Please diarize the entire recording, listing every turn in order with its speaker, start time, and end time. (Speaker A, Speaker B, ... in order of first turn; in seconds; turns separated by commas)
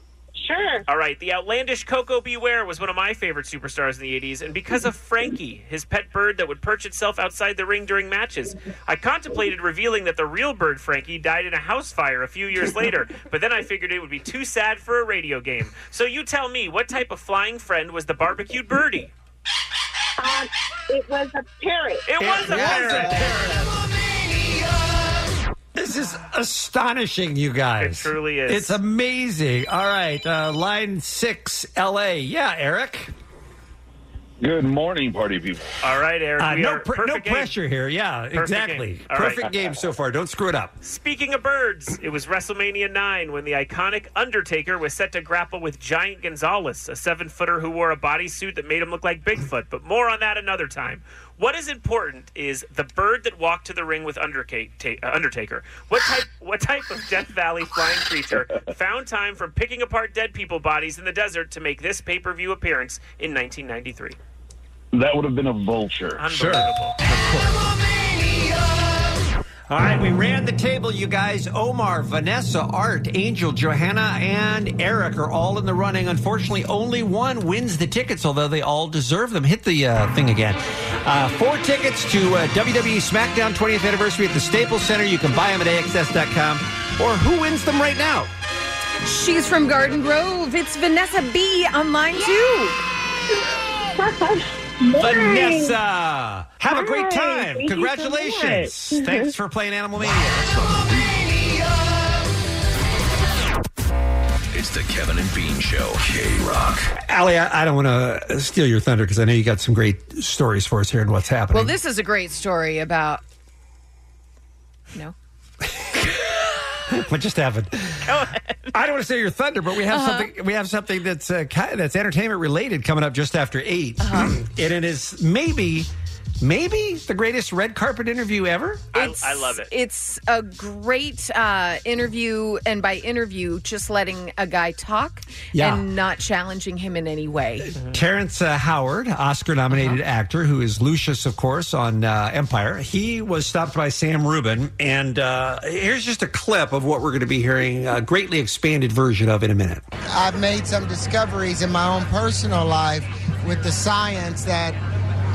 Speaker A: 0.4-0.8, Speaker B: 0.9-19.1, Speaker A: 20.2-22.1, Speaker B: 22.1-23.7, Speaker C: 22.2-23.7, Speaker C: 25.7-33.1, Speaker B: 27.8-28.8, Speaker D: 34.4-35.7, Speaker B: 35.8-37.5, Speaker C: 36.4-40.7, Speaker B: 38.3-39.4, Speaker B: 40.8-64.2, Speaker D: 64.9-66.2, Speaker B: 66.2-67.0, Speaker C: 66.3-67.6, Speaker C: 69.7-88.3, Speaker E: 89.0-92.8, Speaker A: 94.0-95.7, Speaker C: 95.0-100.5, Speaker A: 96.7-99.3, Speaker F: 104.5-106.9, Speaker C: 107.0-111.8, Speaker E: 111.5-113.2, Speaker C: 116.9-118.1, Speaker E: 118.0-118.7, Speaker C: 118.7-125.9, Speaker E: 119.9-120.3, Speaker E: 124.0-124.3, Speaker C: 126.4-128.8, Speaker B: 128.9-129.7, Speaker E: 128.9-137.7, Speaker C: 135.5-135.8, Speaker B: 137.7-138.0, Speaker C: 137.8-149.8, Speaker G: 150.1-154.8